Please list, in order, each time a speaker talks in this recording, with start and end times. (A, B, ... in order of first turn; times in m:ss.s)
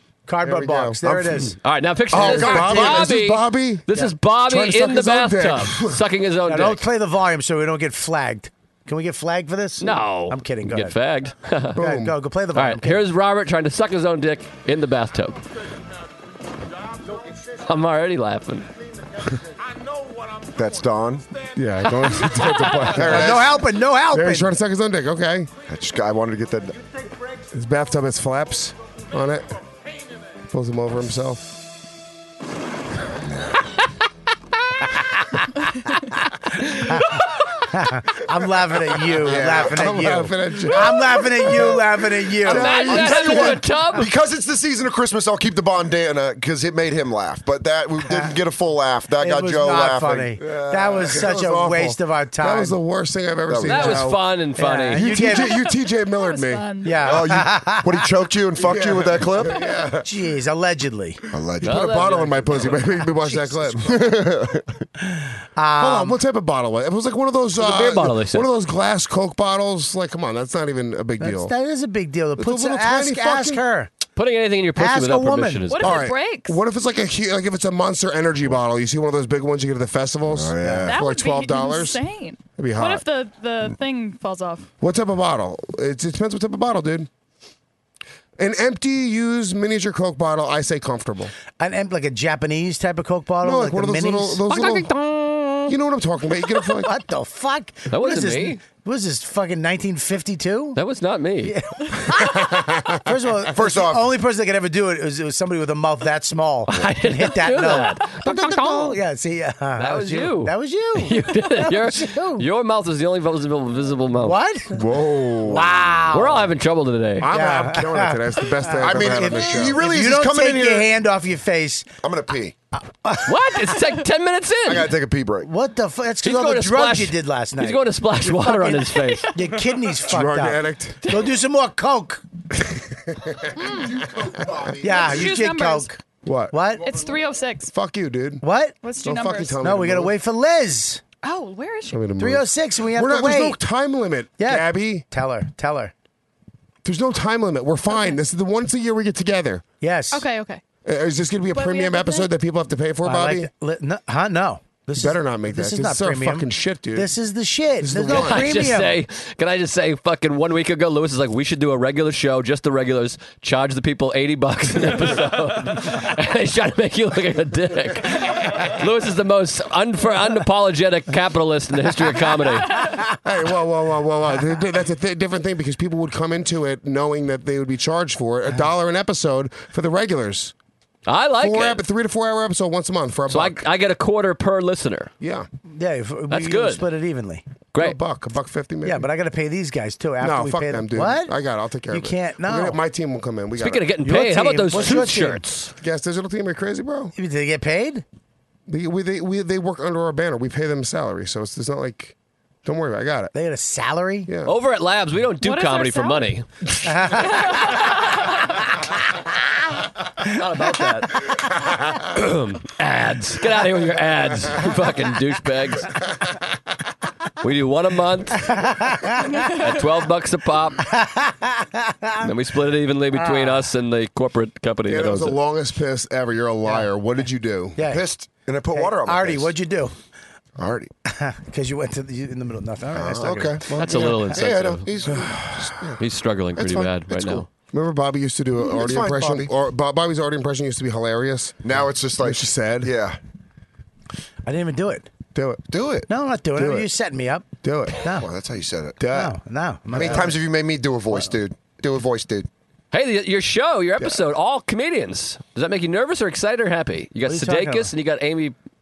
0:00.3-0:01.6 A
0:00.4-0:01.3 B
0:01.6-0:06.8 C
0:02.1-0:06.0 B
0:02.2-0:03.0 D
0:06.5-0:11.0 A
0:09.8-0:11.8 C
0:11.8-0:12.2 B
0:11.8-0:13.1 A
0:12.5-0:15.4 C
0:17.6-0:18.7 C
0:20.5-0:21.2 D
0:21.6-0:23.6 B
0:22.9-0:23.6 D
0:22.9-0:24.5 A
0:24.1-0:25.5 B
0:25.7-0:26.8 D
0:27.5-0:29.5 B
0:30.5-0:31.6 B
0:33.2-0:33.6 D
0:36.6-0:37.2 A
0:37.7-0:43.4 A
0:39.2-0:39.9 D
0:39.3-0:41.9 B
0:42.4-0:43.6 B
0:42.4-0:44.1 C
0:42.7-0:51.4 D
0:49.2-0:52.8 A
0:50.4-0:54.2 B
0:53.5-0:54.0 D
0:53.6-0:55.0 C
0:54.0-0:55.7 A
0:54.9-0:56.8 B
0:56.1-0:57.1 E
0:56.8-0:58.1 A
0:57.0-0:59.6 D
0:58.6-1:00.1 B
1:00.0-1:01.2 A
1:01.3-1:01.9 D
1:01.6-1:04.2 B
1:01.6-1:02.8 C
1:03.2-1:03.5 A
1:03.8-1:04.8 D
1:05.0-1:06.2 A
1:05.8-1:11.5 B
1:07.6-1:08.5 C
1:11.2-1:13.9 A
1:12.4-1:13.6 B
1:14.2-1:16.1 C
1:14.8-1:15.8 A
1:15.7-1:16.6 E
1:15.8-1:22.0 B
1:20.3-1:21.0 D
1:20.6-1:20.9 A
1:20.9-1:24.7 E
1:22.6-1:23.0 B
1:24.8-1:27.1 B
1:28.4-1:31.3 B
1:31.6-1:34.4 A
1:33.4-1:34.9 B
1:34.5-1:35.8 C
1:35.7-1:36.9 B
1:36.8-1:40.8 A
1:37.9-1:38.6 C
1:40.8-1:41.6 C
1:41.4-1:52.5 A
1:42.1-1:43.1 B
1:43.5-1:44.2 D
1:46.7-1:49.0 C
1:49.8-1:54.4 C
1:54.2-1:54.8 A
1:54.7-1:55.8 B
1:55.4-1:56.5 A
1:56.1-1:57.3 C
1:57.2-1:59.8 B
1:57.3-2:01.9 A
1:58.8-2:00.9 D
2:02.0-2:02.6 D
2:03.0-2:03.7 A
2:03.2-2:04.9 C
2:04.6-2:05.5 D
2:05.4-2:12.2 A
2:06.2-2:09.3 C
2:10.1-2:11.0 B
2:12.6-2:13.6 B
2:13.6-2:14.0 E
2:13.9-2:15.3 D
2:14.8-2:16.0 A
2:14.9-2:15.9 E
2:16.2-2:16.7 B
2:16.5-2:17.0 A
2:16.8-2:17.7 E
2:17.7-2:18.4 B
2:18.4-2:18.8 A
2:18.8-2:19.6 E
2:19.0-2:20.2 B
2:19.6-2:21.0 A
2:21.2-2:22.0 E
2:21.9-2:25.1 B
2:22.2-2:23.6 A
2:24.4-2:25.9 A
2:26.8-2:29.7 B
2:29.8-2:30.3 A
2:30.1-2:30.6 E
2:30.8-2:33.5 B
2:31.5-2:32.3 E
2:33.0-2:39.0 A
2:35.0-2:37.1 B
2:37.8-2:38.7 B
2:38.1-2:52.8 C
2:53.2-3:00.5 B
3:01.1-3:01.8 C
3:01.4-3:03.6 B
3:03.3-3:05.1 C
3:05.2-3:05.5 B
3:05.8-3:07.4 A
3:06.3-3:06.8 C
3:07.7-3:08.0 C
3:07.8-3:09.1 B
3:08.8-3:11.3 A
3:10.2-3:14.0 B
3:11.9-3:12.8 A
3:13.6-3:15.7 C
3:14.0-3:15.4 A
3:14.8-3:15.1 B
3:15.8-3:17.1 B
3:17.2-3:18.0 A
3:18.7-3:23.3 B
3:23.3-3:24.3 A
3:24.3-3:24.5 B
3:24.4-3:26.5 C
3:25.4-3:26.3 E
3:26.8-3:27.5 A
3:27.4-3:27.8 E
3:30.2-3:31.4 C
3:32.0-3:36.0 C
3:37.4-3:38.6 C
3:38.6-3:39.3 A
3:39.4-3:40.8 C
3:40.8-3:42.3 A
3:42.2-3:45.4 C
3:43.1-3:43.7 A
3:44.9-3:47.8 B
3:47.8-3:48.0 A
3:47.9-3:49.6 D
3:48.7-3:50.0 A
3:50.6-3:50.9 D
3:51.1-3:54.4 A
3:52.9-3:56.0 D
3:53.8-3:54.9 C
3:56.0-3:57.5 C
3:56.6-3:57.5 D
3:57.7-4:01.6 B
3:58.6-3:59.5 D
4:01.6-4:03.2 D
4:02.2-4:02.9 B
4:04.4-4:05.1 A
4:05.4-4:05.6 B
4:05.7-4:06.1 D
4:06.1-4:08.3 A
4:06.6-4:06.9 B
4:07.6-4:08.0 B
4:08.0-4:09.1 D
4:09.0-4:09.3 B
4:09.1-4:10.4 A
4:09.9-4:10.3 B
4:10.0-4:12.5 D
4:12.9-4:18.6 C
4:17.2-4:17.9 A